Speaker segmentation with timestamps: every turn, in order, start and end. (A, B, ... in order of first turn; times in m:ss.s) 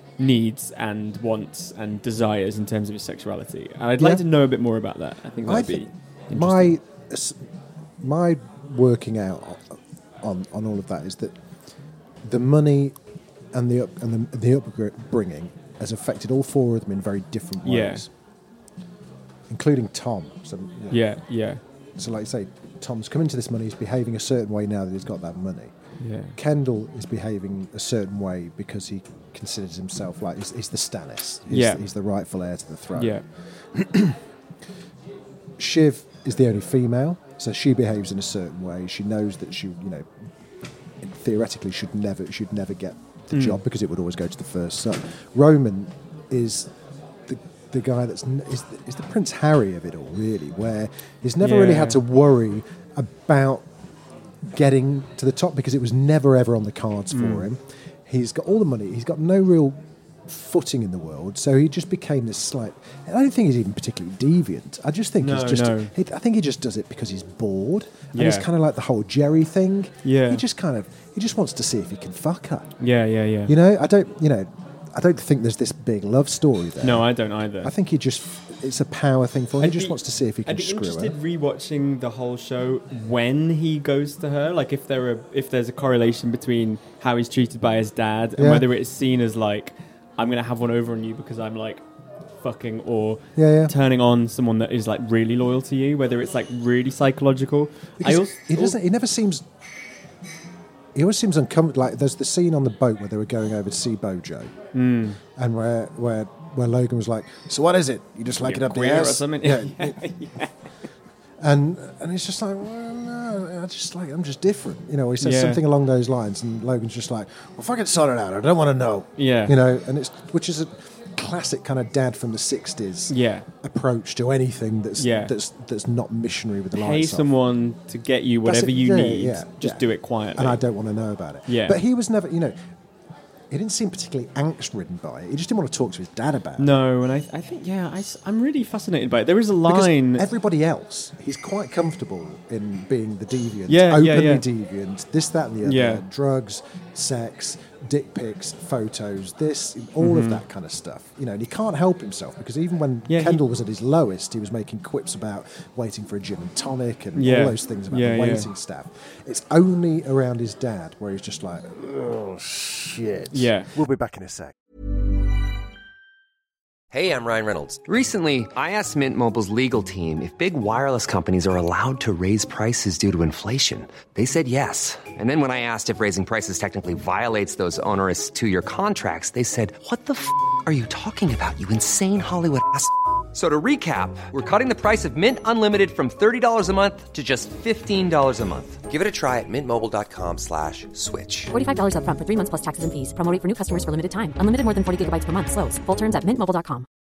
0:00.2-0:06.8 A
0:04.0-0:04.2 B
0:05.5-0:07.4 B
0:08.0-0:11.4 B
0:12.2-0:13.0 B
0:13.5-0:18.1 B
0:17.6-0:18.0 A
0:19.5-0:21.0 B
0:20.9-0:21.6 A
0:22.0-0:25.7 B
0:26.0-0:26.4 A
0:26.4-0:33.2 B
0:31.5-0:31.8 A
0:33.0-0:33.2 A
0:33.7-0:34.2 B
0:35.6-0:40.1 B
0:41.0-0:46.7 B
0:43.3-0:43.6 A
0:47.3-0:53.7 B
0:51.4-0:52.0 A
0:54.4-1:12.7 B
0:57.1-0:57.5 A
1:05.2-1:05.9 A
1:08.1-1:08.5 A
1:10.0-1:10.4 A
1:12.8-1:13.5 A
1:13.5-1:17.1 B
1:16.8-1:17.7 A
1:17.6-1:21.2 B
1:19.6-1:31.8 A
1:28.4-1:28.7 B
1:32.4-1:38.8 A
1:33.4-1:33.7 B
1:38.0-1:39.4 B
1:41.0-1:44.5 B
1:44.7-1:45.2 A
1:45.4-1:50.0 B
1:48.4-1:50.5 A
1:51.4-2:07.3 B
1:55.2-1:55.6 A
1:59.2-1:59.6 A
2:03.1-2:03.5 A
2:05.0-2:05.3 A
2:06.7-2:10.6 A
2:08.4-2:12.6 B
2:11.5-2:11.8 A
2:13.5-2:16.7 B
2:16.6-2:20.3 A
2:19.7-2:44.6 B
2:23.7-2:24.4 A
2:25.6-2:26.0 A
2:30.0-2:30.4 A
2:33.1-2:33.4 A
2:37.2-2:38.5 A
2:43.3-2:43.7 A
2:46.9-3:11.5 C
3:11.5-3:16.9 D